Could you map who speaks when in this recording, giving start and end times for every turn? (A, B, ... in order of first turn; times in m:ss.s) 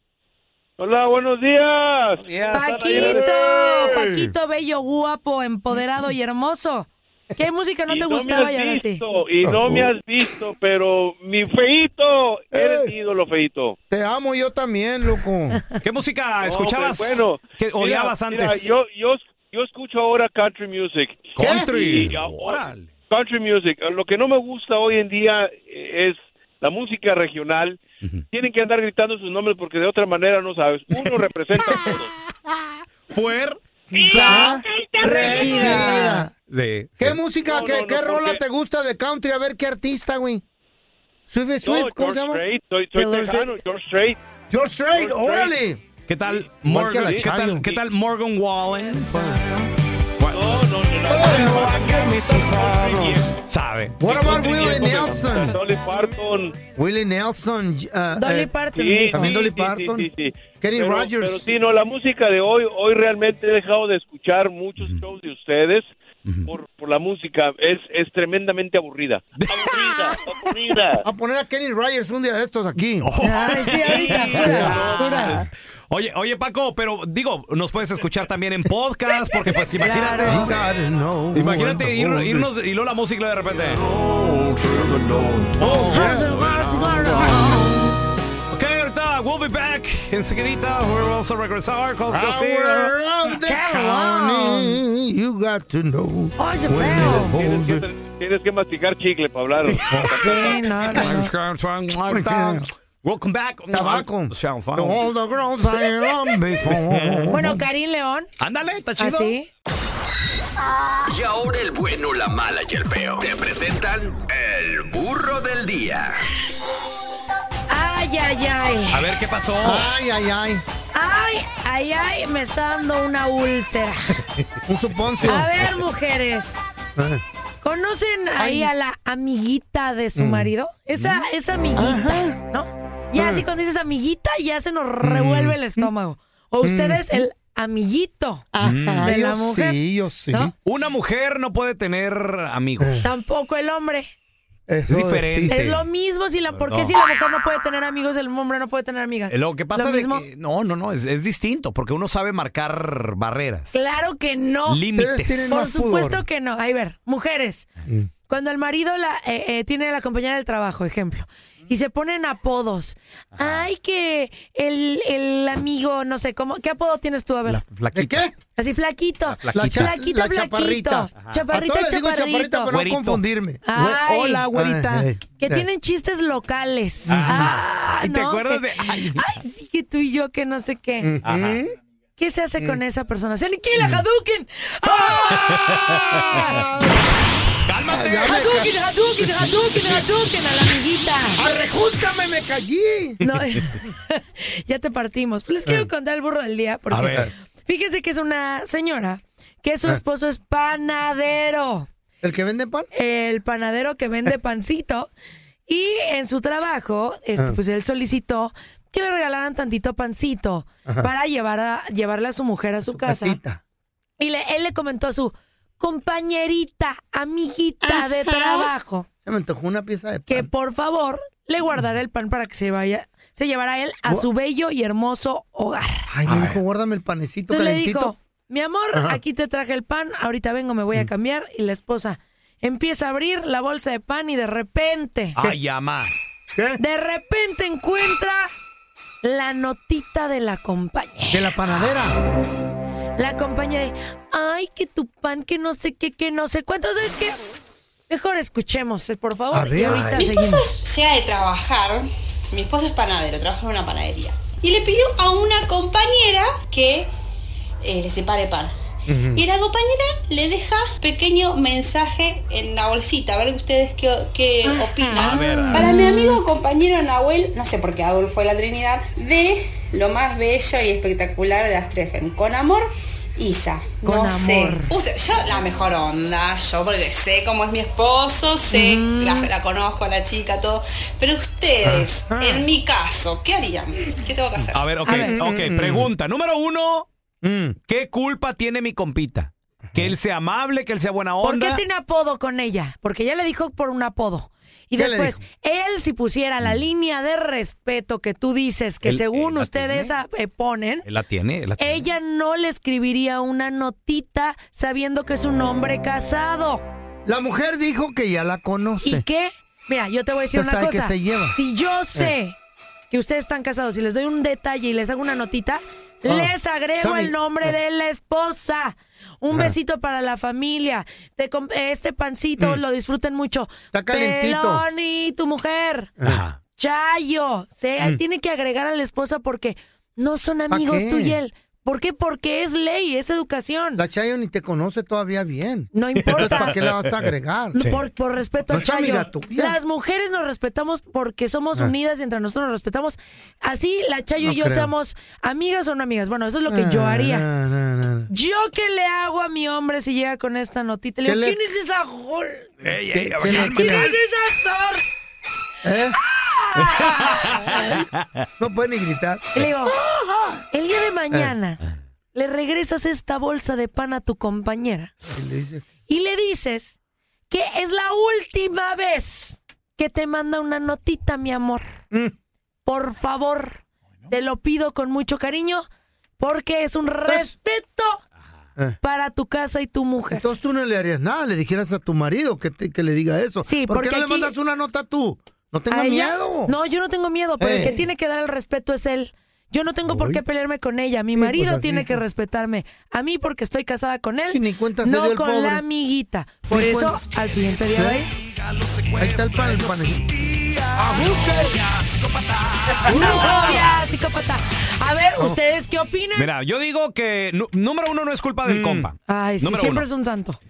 0:00.8-0:03.9 A
0:02.3-0:03.1 B
0:02.5-0:09.0 C
0:03.7-0:04.2 B
0:07.9-0:13.8 A
0:09.4-0:10.0 D
0:12.5-0:12.9 D
0:13.9-0:15.6 D
0:15.8-0:18.7 B
0:16.4-0:32.1 A
0:21.4-0:22.9 B
0:21.4-0:21.7 D
0:33.1-0:34.5 B
0:33.9-0:35.7 A
0:34.2-0:36.3 D
0:34.2-0:34.4 C
0:35.0-0:36.3 C
0:35.4-0:36.0 B
0:36.5-0:37.2 B
0:37.0-0:40.4 D
0:37.4-0:38.4 A
0:41.3-0:42.4 D
0:41.6-0:44.2 A
0:42.9-0:43.6 C
0:44.5-0:45.8 D
0:44.9-0:45.6 A
0:46.1-0:49.2 B
0:46.3-0:47.8 A
0:46.7-0:47.6 D
0:49.1-0:49.7 D
0:50.2-0:50.6 B
0:50.3-0:53.3 A
0:51.1-0:53.2 D
0:51.2-0:51.6 B
0:53.4-0:55.0 B
0:54.0-0:55.6 D
0:54.0-0:56.6 A
0:56.8-0:58.5 D
0:58.2-0:59.3 C
0:58.7-1:05.9 A
0:59.1-1:00.1 D
1:00.6-1:01.5 D
1:06.5-1:11.0 A
1:09.4-1:09.7 B
1:11.0-1:13.1 D
1:13.0-1:20.6 B
1:13.2-1:15.5 C
1:13.7-1:15.4 A
1:14.4-1:15.3 D
1:19.8-1:20.5 C
1:20.2-1:22.5 D
1:21.3-1:27.3 B
1:25.6-1:26.3 D
1:25.9-1:27.8 C
1:28.5-1:33.0 B
1:32.1-1:37.8 D
1:33.4-1:34.8 C
1:36.4-1:37.3 C
1:37.2-1:41.0 A
1:39.9-1:40.4 D
1:40.2-1:41.3 C
1:40.9-1:45.1 B
1:42.1-1:42.7 D
1:43.7-1:47.6 D
1:46.6-1:47.4 B
1:47.3-1:48.3 C
1:48.4-1:49.3 B
1:49.0-1:49.5 C
1:51.1-1:56.2 E
1:57.7-1:59.1 C
1:58.9-1:59.9 B
1:59.6-2:00.6 D
2:00.9-2:04.2 C
2:04.7-2:05.5 D
2:05.2-2:06.6 C
2:07.0-2:07.2 D
2:07.6-2:18.5 C
2:08.4-2:08.7 D
2:10.2-2:10.5 D
2:11.0-2:11.2 B
2:11.8-2:12.4 D
2:13.2-2:13.4 D
2:15.0-2:15.9 D
2:16.6-2:17.3 D
2:18.5-2:20.5 D
2:18.6-2:19.1 B
2:19.0-2:19.8 C
2:20.6-2:23.1 B
2:22.8-2:23.1 D
2:23.0-2:24.1 C
2:24.7-2:25.6 D
2:24.9-2:25.8 B
2:25.5-2:30.2 C
2:26.6-2:26.9 B
2:29.3-2:33.8 B
2:33.7-2:34.8 C
2:34.7-2:35.6 B
2:34.9-2:36.2 D
2:35.5-2:37.7 C
2:38.3-2:47.6 C
2:43.4-2:43.6 B
2:47.5-2:48.2 B
2:47.9-2:48.3 D
2:48.6-2:52.7 C
2:49.3-2:49.9 B
2:49.5-2:53.6 D
2:52.7-2:55.1 B
2:53.6-2:54.5 C
2:54.5-2:55.7 D
2:55.4-3:01.1 C
2:57.1-2:57.6 D
2:57.1-2:59.4 B
3:01.0-3:01.7 D
3:01.2-3:01.6 B
3:02.2-3:06.7 C
3:03.8-3:04.0 D
3:05.3-3:06.2 B
3:07.6-3:08.4 B
3:07.9-3:08.7 D
3:08.2-3:11.4 C
3:11.4-3:13.2 D
3:13.2-3:21.9 C
3:16.9-3:17.2 B
3:22.2-3:22.9 D
3:22.9-3:25.1 C
3:25.7-3:33.4 C
3:32.8-3:33.6 D
3:34.2-3:39.1 C
3:37.8-3:38.7 D
3:39.2-3:40.5 D
3:40.3-3:46.1 C
3:46.1-3:48.1 D
3:46.3-3:46.6 B
3:47.5-3:55.4 C
3:48.9-3:49.2 D
3:55.4-3:56.1 B
3:56.5-3:56.8 D
3:56.8-3:58.5 C
3:59.2-4:01.5 C
4:01.3-4:02.2 D
4:03.2-4:07.4 C
4:08.1-4:10.8 C
4:09.5-4:10.2 D
4:09.9-4:17.1 F
4:17.8-4:18.7 F
4:19.1-4:19.4 D
4:19.4-4:32.9 F
4:24.8-4:26.4 C
4:25.2-4:25.9 B
4:33.4-4:44.9 F
4:34.0-4:34.9 C
4:38.7-4:39.5 C
4:41.8-4:42.6 D
4:44.7-4:47.1 B
4:45.0-4:45.4 C
4:45.2-4:46.1 D
4:47.4-4:47.8 D
4:47.9-4:51.8 B
4:49.9-4:50.1 D
4:51.4-5:01.1 C
4:55.0-4:55.4 D
4:59.0-5:00.1 B
5:01.1-5:02.0 B
5:01.8-5:06.8 C
5:07.2-5:09.2 D
5:09.0-5:12.6 C
5:10.5-5:11.6 D
5:13.1-5:26.1 C
5:16.2-5:17.7 D
5:23.9-5:24.8 D
5:26.2-5:26.6 B
5:26.8-5:34.0 C
5:30.7-5:31.4 D
5:34.0-5:37.8 D
5:35.9-5:36.8 C
5:36.2-5:37.1 B
5:37.7-5:47.5 C
5:38.7-5:39.8 D
5:44.4-5:44.9 D
5:46.7-5:48.3 D
5:48.3-5:52.7 C
5:51.2-5:51.6 D
5:52.8-5:54.1 B
5:53.1-5:54.1 D
5:53.4-5:55.0 C
5:55.8-5:56.2 D
5:56.2-5:57.8 C
5:56.8-5:58.5 B
5:58.6-5:59.7 D
5:59.6-6:00.0 C
6:00.7-6:01.8 C
6:02.3-6:05.1 C
6:05.3-6:05.9 D
6:06.1-6:07.0 C
6:07.5-6:11.9 C
6:12.9-6:15.8 C
6:16.4-6:18.2 C
6:17.3-6:17.5 D
6:19.0-6:20.4 C
6:20.3-6:26.8 D
6:23.6-6:24.5 C
6:25.9-6:38.3 C
6:27.6-6:28.0 D
6:30.1-6:30.4 D
6:31.3-6:32.2 D
6:34.5-6:35.8 D
6:36.7-6:37.2 D
6:37.9-6:38.3 D
6:39.2-6:40.3 D
6:41.0-6:41.8 D
6:43.0-6:46.5 C
6:43.1-6:43.6 D
6:43.1-6:43.7 B
6:46.4-6:50.1 B
6:48.6-6:49.1 D
6:49.3-6:50.6 C